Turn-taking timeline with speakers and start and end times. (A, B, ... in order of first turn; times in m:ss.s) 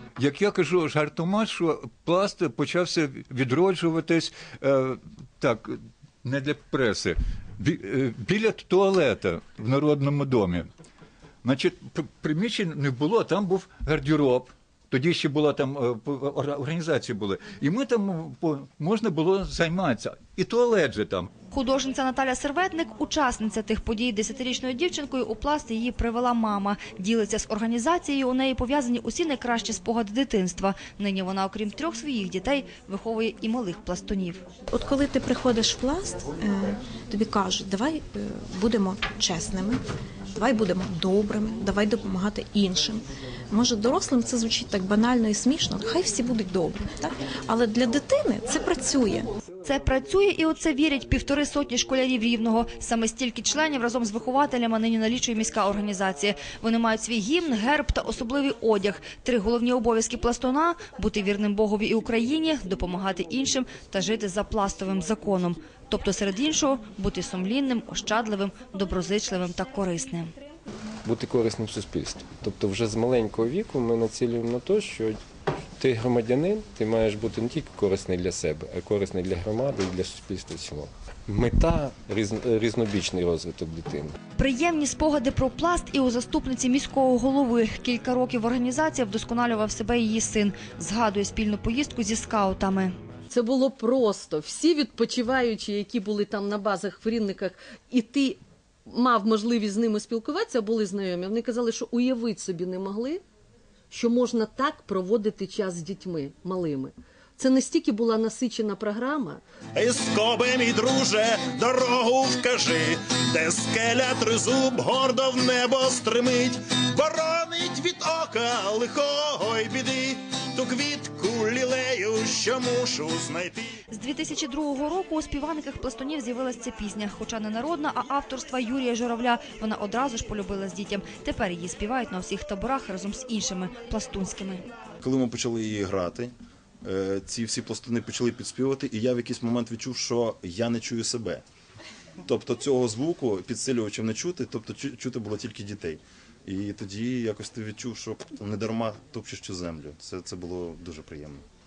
0:00.2-0:10.7 A
0:11.4-0:21.3 A
0:21.5-0:34.4 B
0:34.7-0:39.8 C
0:40.4-0:49.2 C
0:49.6-1:10.3 B
1:11.1-1:15.2 D
1:15.8-1:24.1 D
1:24.4-1:33.0 B
1:33.3-1:43.2 E
1:43.9-1:49.4 E
1:49.8-2:03.6 F
2:03.9-2:14.7 B
2:15.0-2:16.3 G
2:16.8-2:21.4 G
2:22.2-2:31.4 G